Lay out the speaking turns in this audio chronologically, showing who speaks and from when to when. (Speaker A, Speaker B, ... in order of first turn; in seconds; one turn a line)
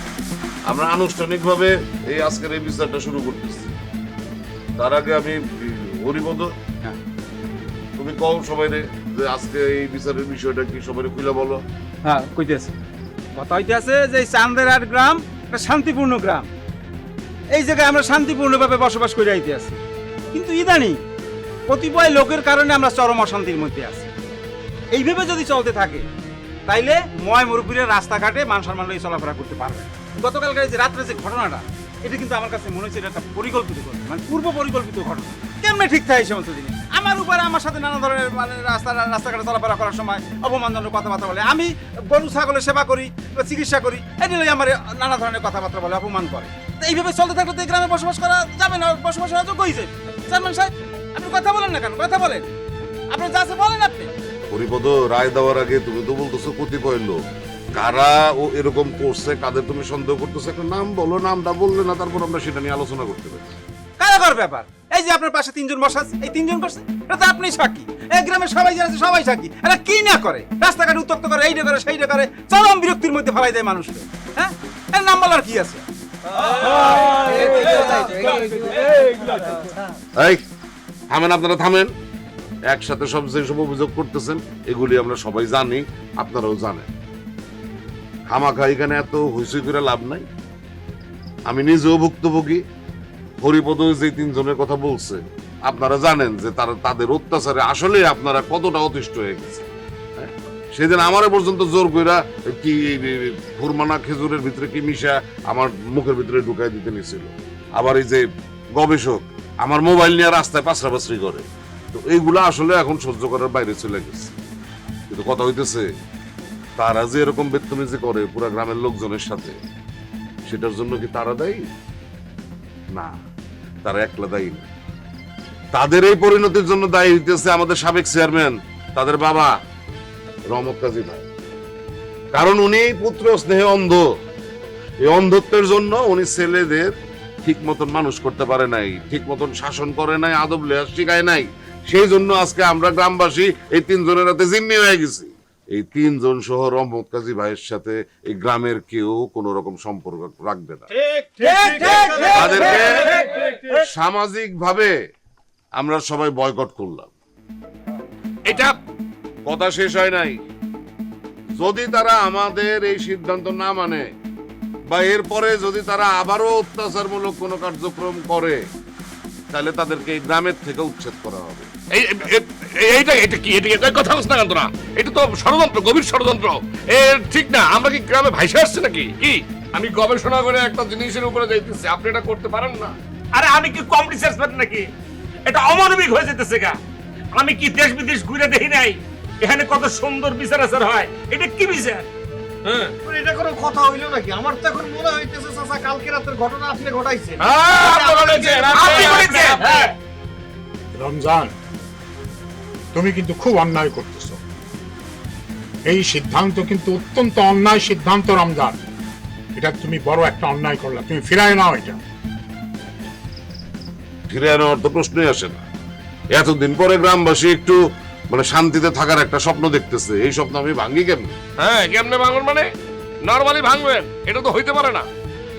Speaker A: 0.7-3.7
Speaker A: 4.8-6.5
Speaker A: 8.0-11.6
Speaker B: 12.0-12.8
Speaker B: 13.4-16.5
Speaker B: 17.6-19.8
Speaker B: 20.3-21.0
Speaker B: 21.7-24.1
Speaker B: 24.9-26.0
Speaker B: 26.7-52.5
Speaker B: 53.1-54.1
Speaker A: 54.5-57.2
Speaker A: 57.7-63.6
Speaker B: 64.0-75.8
Speaker B: 76.5-78.7
Speaker A: 80.2-80.4
Speaker A: 81.1-81.9
Speaker A: 82.7-86.9
Speaker A: 88.3-90.3
Speaker A: 91.5-92.6
Speaker A: 93.4-108.2
Speaker A: 108.8-114.4
Speaker A: 115.1-115.8
Speaker A: 116.8-119.6
Speaker A: 120.5-121.7
Speaker A: 123.8-124.7
Speaker A: 125.7-129.5
Speaker A: 130.5-131.2
Speaker A: 132.3-134.0
Speaker A: 135.0-136.9
Speaker A: 137.4-150.9
Speaker C: 150.9-153.8
Speaker B: 151.4-153.2
Speaker A: 152.3-153.2
Speaker A: 153.8-154.9
Speaker A: 155.8-157.1
Speaker D: 158.5-158.8
Speaker A: 159.5-160.4
Speaker A: 161.6-164.0
Speaker A: 164.9-168.6
Speaker A: 169.5-171.7
Speaker D: 171.9-183.0
Speaker E: 183.3-184.9
Speaker E: 185.5-186.8
Speaker E: 187.4-192.1
Speaker D: 192.7-192.9
Speaker C: 193.1-199.9
Speaker D: 197.4-199.6
Speaker E: 198.7-199.9
Speaker F: 200.9-201.6
Speaker F: 202.9-204.4
Speaker F: 205.9-208.8
Speaker F: 209.6-212.0
Speaker A: 214.3-215.6
Speaker A: 216.3-217.8
Speaker A: 218.3-221.3
Speaker D: 221.6-222.7
Speaker D: 223.2-225.1